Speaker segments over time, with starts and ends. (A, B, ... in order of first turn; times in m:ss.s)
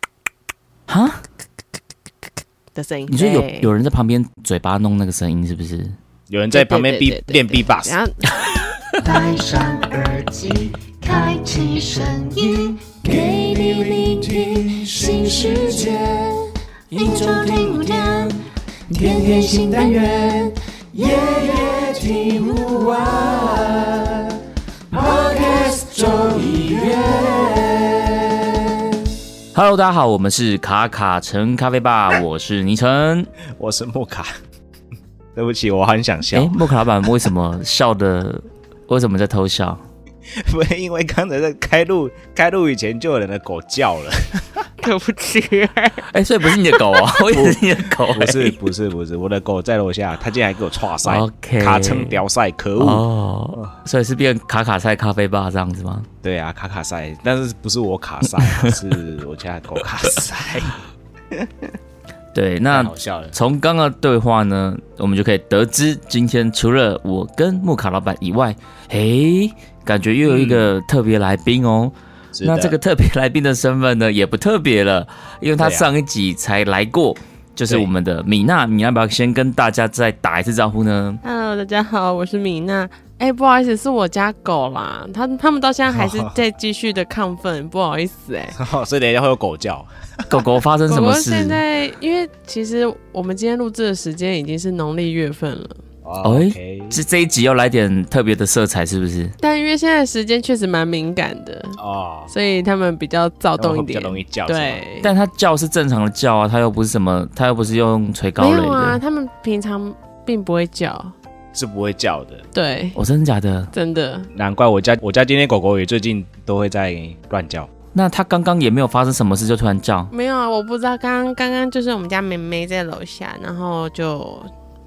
0:00.9-0:01.2 A
0:02.8-0:03.7 B
0:03.1-0:06.0 A
0:06.3-0:08.0 C
0:06.5-0:08.2 B
0:09.0-0:24.4 D
0:24.9-0:28.8 D
0:29.5-0:33.3 A
0:33.6-0:34.3 C
0:35.4-0:36.7 C
0:36.3-0:39.8 A
0:40.4-0:44.6 C
0:44.8-0:46.1 B
0:46.1-0:48.6 A
0:46.6-0:47.0 B
0:47.3-0:47.6 C
0:48.1-0:53.0 C
0:51.0-0:52.2 A
0:52.8-0:56.1 A
0:56.2-1:00.8 C
0:58.4-0:58.8 A
1:02.3-1:21.2 A
1:02.7-1:03.4 C
1:10.2-1:10.7 C
1:12.4-1:12.8 C
1:15.6-1:15.9 C
1:21.2-1:28.6 B
1:25.9-1:26.3 C
1:28.6-1:30.4 C
1:30.3-1:31.6 A
1:30.9-1:35.8 B
1:36.0-1:37.0 C
1:36.2-1:39.4 A
1:39.4-1:41.8 B
1:41.8-1:42.3 C
1:42.3-1:45.1 B
1:43.6-1:44.8 C
1:45.0-1:49.0 A
1:48.4-1:51.1 B
1:51.5-1:52.4 C
1:52.5-1:53.0 B
1:53.0-1:53.7 A
1:53.7-1:54.3 B
1:54.3-1:57.7 C
1:57.9-2:00.1 A
2:00.1-2:04.5 B